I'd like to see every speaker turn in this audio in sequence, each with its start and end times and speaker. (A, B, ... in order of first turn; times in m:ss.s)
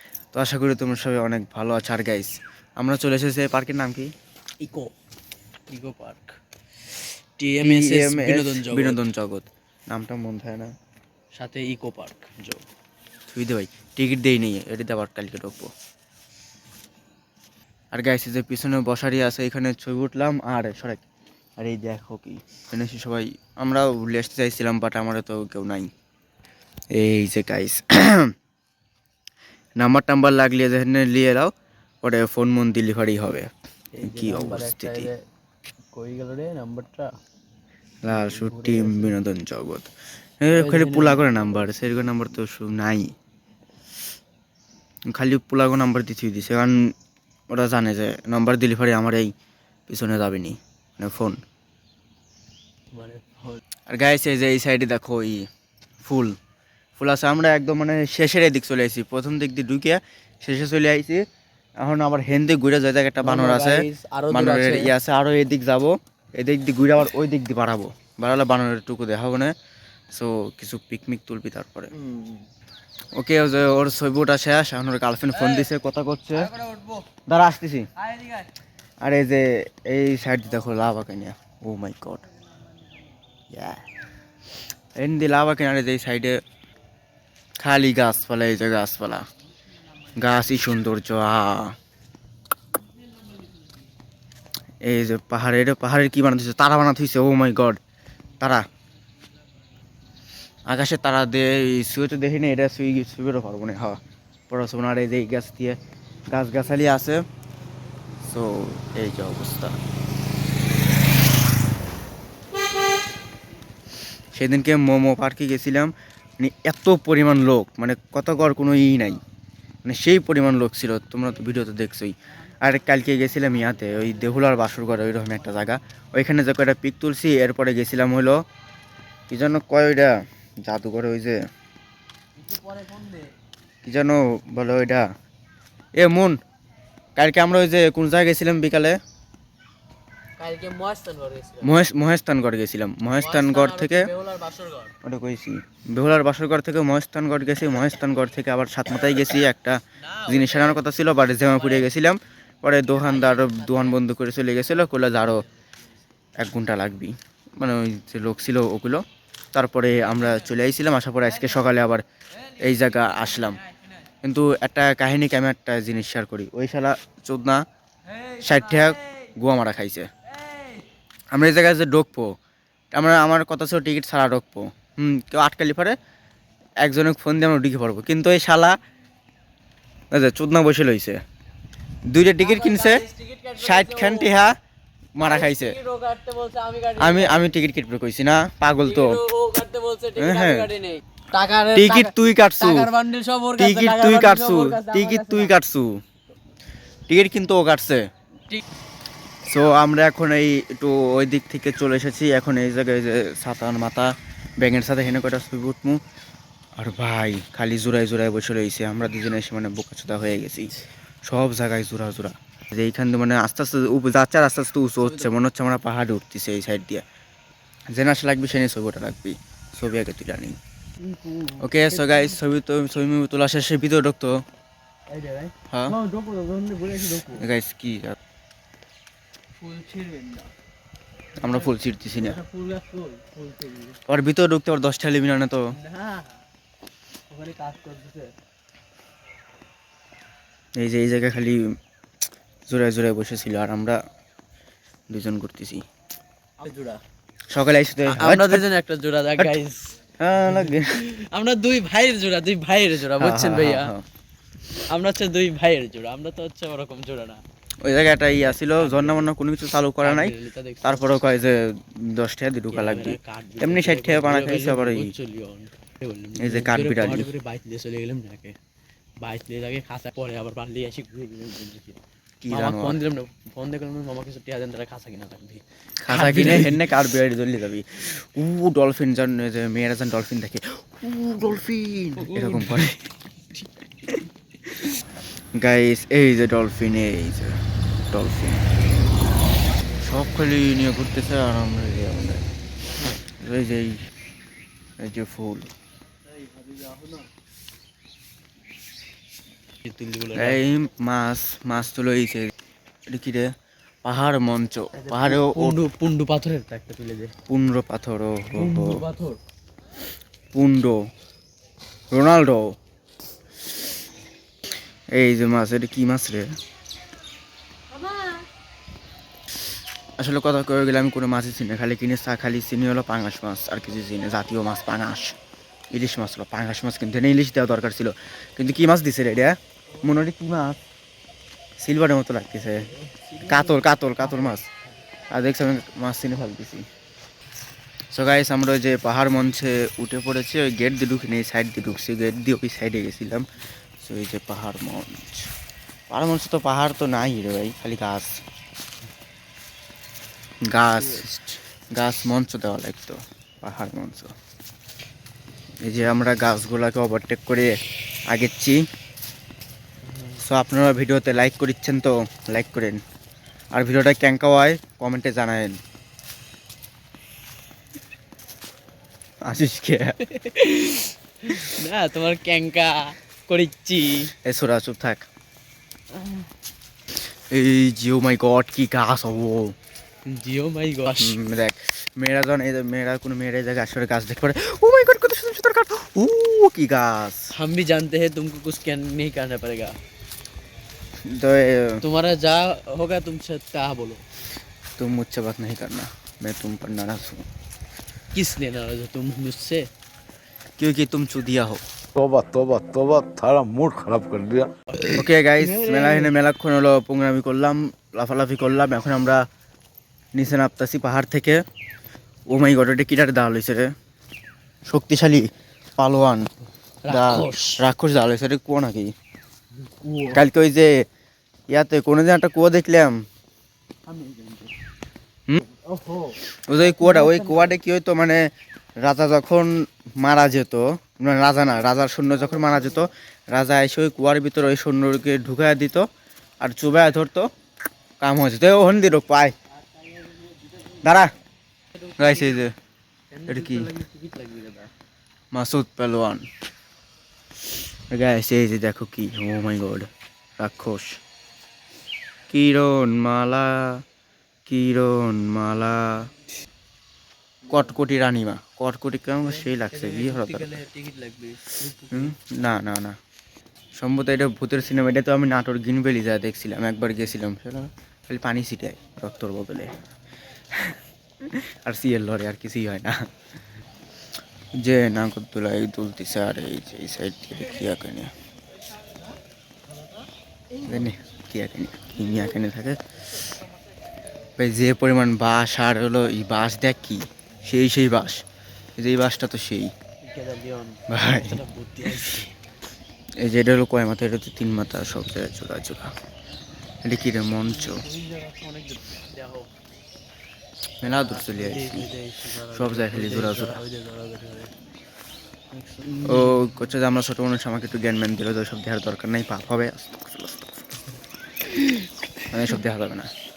0:00.3-0:04.1 A
0:04.6-0:04.9 B
0:05.7-0:06.4 B
0:06.9-0:09.0 B
0:07.6-0:10.7 A
0:11.3-0:12.6 B
0:13.3-0:15.7 A
0:17.9-0:21.0 A
0:21.6-0:25.9 A
0:26.9-0:28.3 A
0:29.8-0:31.5 A
0:32.0-0:33.5 A
0:33.9-0:35.2 B
0:34.0-0:35.1 A
0:35.9-0:37.1 B
0:38.0-0:39.9 A
0:38.1-0:39.2 B
0:40.4-0:43.1 A
0:40.5-0:41.5 B
0:45.1-0:46.9 A
0:47.5-0:49.3 A
0:49.9-0:51.4 A
0:52.9-0:53.6 B
0:53.9-0:55.4 A
0:56.0-0:56.4 A
0:57.0-1:01.2 A
1:01.8-1:09.5 A
1:03.2-1:04.9 B
1:10.1-1:11.9 A
1:12.0-1:12.4 B
1:13.1-1:16.5 A
1:17.2-1:17.9 A
1:19.0-1:22.2 A
1:23.5-1:23.8 A
1:25.0-1:26.4 A
1:27.6-1:29.2 A
1:30.1-1:31.7 A
1:34.8-1:37.8 A
1:40.7-1:44.0 A
1:44.5-1:45.8 A
1:46.3-1:47.2 A
1:48.2-1:49.8 A
1:54.3-1:59.2 A
1:59.8-2:08.4 A
2:09.3-2:11.4 A
2:12.4-2:13.3 B
2:13.8-2:15.1 A
2:15.9-2:16.4 A
2:17.2-2:19.0 A
2:20.4-2:21.7 B
2:21.6-2:24.1 A
2:23.1-2:24.9 B
2:25.0-2:35.4 A
2:30.1-2:30.8 B
2:31.4-2:31.9 B
2:33.0-2:34.0 B
2:36.4-2:42.0 A
2:42.6-2:43.6 A
2:44.2-2:47.6 A
2:48.3-2:50.1 A
2:51.3-2:52.4 A
2:52.9-2:56.0 A
2:56.8-2:58.8 A
3:00.1-3:01.2 A
3:02.1-3:03.0 A
3:02.4-3:04.3 B
3:03.6-3:04.5 A
3:05.1-3:05.8 A
3:05.2-3:07.5 B
3:07.0-3:09.2 A
3:08.8-3:15.5 B
3:10.2-3:10.7 A
3:11.7-3:12.9 A
3:13.6-3:16.0 A
3:17.1-3:18.1 A
3:19.5-3:26.0 A
3:26.8-3:30.7 A
3:31.2-3:37.0 A
3:35.0-3:35.3 B
3:37.9-3:40.6 A
3:41.0-3:42.4 B
3:41.6-3:44.4 A
3:45.1-3:47.4 B
3:45.7-3:46.0 A
3:47.1-3:48.2 A
3:49.6-3:50.5 B
3:51.4-3:52.4 A
3:51.4-3:54.0 B
3:54.0-3:55.7 A
3:55.8-3:56.4 B
3:57.3-3:58.3 B
4:00.8-4:01.6 A
4:02.7-4:04.0 A
4:05.1-4:05.8 A
4:06.6-4:07.0 B
4:07.5-4:08.6 A
4:08.1-4:13.9 B
4:10.2-4:11.1 A
4:13.1-4:14.0 A
4:14.9-4:17.4 B
4:17.8-4:25.1 A
4:18.6-4:19.3 B
4:20.0-4:21.2 B
4:22.7-4:28.6 B
4:26.4-4:27.3 A
4:29.2-4:32.0 B
4:32.4-4:33.0 A
4:32.5-4:36.9 B
4:36.0-4:43.1 A
4:42.2-4:42.9 B
4:44.0-4:45.0 A
4:45.5-4:47.6 A
4:48.1-4:48.7 A
4:50.0-4:52.4 A
4:53.4-4:54.0 A
4:55.0-4:55.7 A
4:56.4-4:57.2 B
4:59.8-5:00.6 B
5:00.3-5:02.5 A
5:03.1-5:03.5 A
5:04.0-5:05.8 A
5:05.0-5:07.3 B
5:07.5-5:09.0 A
5:08.5-5:09.4 B
5:10.5-5:11.0 A
5:12.1-5:12.7 A
5:15.1-5:16.5 A
5:18.1-5:18.4 B
5:20.2-5:25.4 A
5:25.9-5:30.8 A
5:31.8-5:34.7 A
5:32.9-5:34.6 B
5:35.3-5:36.9 A
5:38.1-5:43.4 A
5:44.0-5:45.5 A
5:46.1-5:48.4 A
5:50.6-5:51.4 A
5:51.0-5:51.4 B
5:51.9-5:54.3 A
5:55.8-5:58.8 A
6:00.4-6:03.0 A
6:03.7-6:05.8 A
6:09.4-6:10.2 A
6:10.2-6:14.3 B
6:14.4-6:15.2 A
6:16.1-6:16.5 B
6:17.5-6:19.8 A
6:20.2-6:21.4 B
6:21.1-6:27.5 A
6:27.5-6:30.0 B
6:31.2-6:32.0 A
6:32.0-6:34.2 B
6:35.0-6:37.4 A
6:38.3-6:39.9 B
6:40.8-6:41.8 A
6:42.1-6:44.7 C
6:45.0-6:46.3 B
6:45.1-6:49.4 A
6:50.3-6:51.6 A
6:52.5-6:53.9 A
6:54.8-6:56.5 A
6:57.0-6:57.8 B
6:57.1-6:59.1 A
6:59.8-7:00.4 B
7:00.3-7:01.0 A
7:01.7-7:03.2 A
7:04.1-7:04.7 B
7:05.7-7:07.8 B
7:06.6-7:08.5 A
7:09.0-7:16.1 A
7:12.4-7:13.0 B
7:16.6-7:17.5 A
7:18.2-7:19.5 A
7:20.2-7:20.5 B
7:20.9-7:21.3 A
7:22.2-7:22.7 A
7:22.2-7:22.6 B
7:23.3-7:24.9 B
7:23.5-7:23.9 A
7:25.5-7:26.4 A
7:28.1-7:30.1 A
7:30.6-7:31.2 A
7:32.5-7:34.0 A
7:34.6-7:36.3 A
7:37.7-7:40.7 A
7:39.4-7:42.4 B
7:42.1-7:43.2 A
7:44.0-7:50.0 A
7:50.7-7:53.2 A
7:54.8-7:58.3 A
8:00.8-8:03.0 A
8:04.6-8:08.4 A
8:09.0-8:09.9 A
8:10.2-8:12.5 B
8:11.1-8:12.4 A
8:13.4-8:16.1 A
8:17.0-8:18.0 A
8:17.6-8:19.7 B
8:21.0-8:22.1 A
8:21.0-8:24.7 B
8:22.6-8:23.8 A
8:25.7-8:26.8 B
8:26.2-8:30.8 A
8:31.7-8:32.1 B
8:32.5-8:33.3 A